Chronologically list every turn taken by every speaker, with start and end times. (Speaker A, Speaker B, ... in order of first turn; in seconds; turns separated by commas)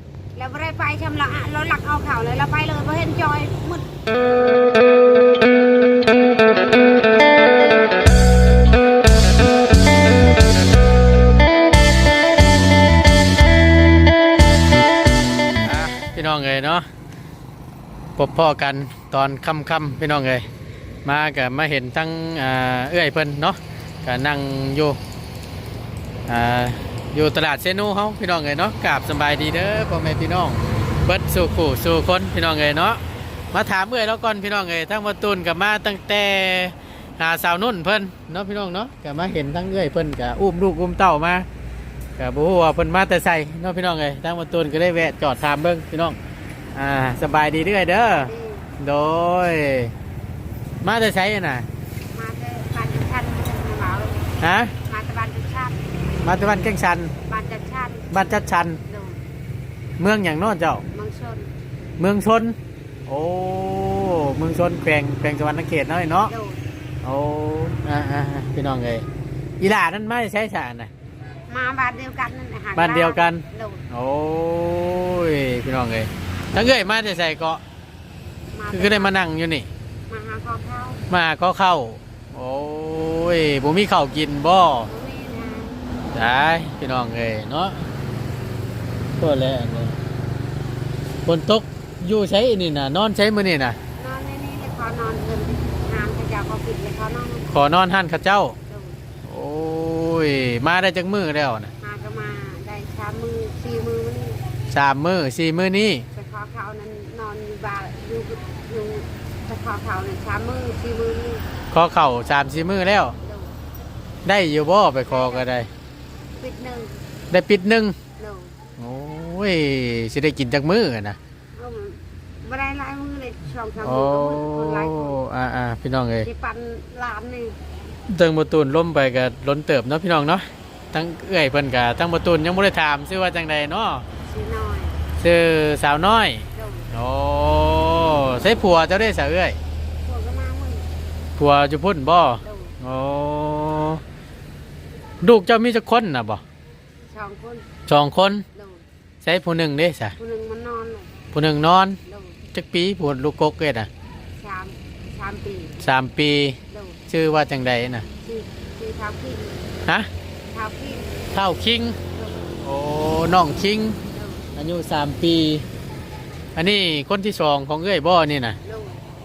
Speaker A: 0.3-3.9, Speaker B: 15.6-16.9, Speaker B: 18.2-20.5, Speaker B: 21.1-25.0, Speaker B: 26.3-33.0, Speaker B: 33.5-41.5, Speaker B: 42.2-46.2, Speaker B: 46.7-49.9, Speaker A: 48.1-48.7, Speaker B: 50.8-51.7, Speaker A: 52.1-54.3, Speaker B: 54.4-54.7, Speaker A: 54.9-55.8, Speaker B: 56.2-57.1, Speaker A: 57.3-58.3, Speaker B: 58.1-58.8, Speaker A: 58.9-59.2, Speaker B: 60.0-60.9, Speaker A: 60.9-61.5, Speaker B: 62.0-62.6, Speaker B: 63.1-66.3, Speaker A: 66.3-66.6, Speaker B: 67.0-69.0, Speaker B: 69.6-70.9, Speaker A: 71.5-73.8, Speaker B: 72.8-77.6, Speaker A: 78.5-79.2, Speaker B: 78.7-79.7, Speaker A: 80.1-81.0, Speaker B: 81.1-84.9, Speaker A: 84.9-85.8, Speaker B: 86.1-87.9, Speaker B: 89.2-90.0, Speaker B: 91.2-93.8, Speaker A: 94.0-97.5, Speaker B: 97.5-98.6, Speaker A: 98.7-99.0, Speaker B: 99.2-101.7, Speaker A: 101.8-104.4, Speaker B: 104.7-106.1, Speaker A: 106.1-111.4, Speaker B: 111.7-113.2, Speaker A: 113.2-113.5, Speaker B: 114.2-115.7, Speaker A: 115.1-115.5, Speaker A: 116.4-116.9, Speaker B: 117.3-118.0, Speaker A: 118.2-118.5, Speaker B: 118.8-121.2, Speaker A: 121.6-125.2, Speaker B: 123.8-126.3, Speaker A: 126.2-127.6, Speaker B: 128.1-134.1, Speaker A: 134.3-135.0, Speaker B: 135.2-139.6, Speaker A: 136.6-136.9, Speaker A: 140.0-140.8, Speaker B: 141.4-144.0, Speaker A: 142.4-142.8, Speaker B: 145.2-146.4, Speaker A: 147.1-147.7, Speaker B: 147.9-148.4, Speaker A: 148.6-148.8, Speaker B: 149.2-150.2, Speaker A: 150.2-151.1, Speaker B: 151.3-152.0, Speaker A: 152.1-152.4, Speaker B: 152.5-153.9, Speaker A: 154.4-155.7, Speaker B: 155.8-156.6, Speaker A: 156.7-157.0, Speaker B: 157.1-158.1, Speaker A: 158.2-159.6, Speaker A: 160.5-161.2, Speaker B: 161.3-162.0, Speaker A: 162.1-162.6, Speaker B: 162.6-164.0, Speaker A: 164.1-164.4, Speaker B: 164.6-165.7, Speaker B: 166.6-168.6, Speaker A: 168.6-169.0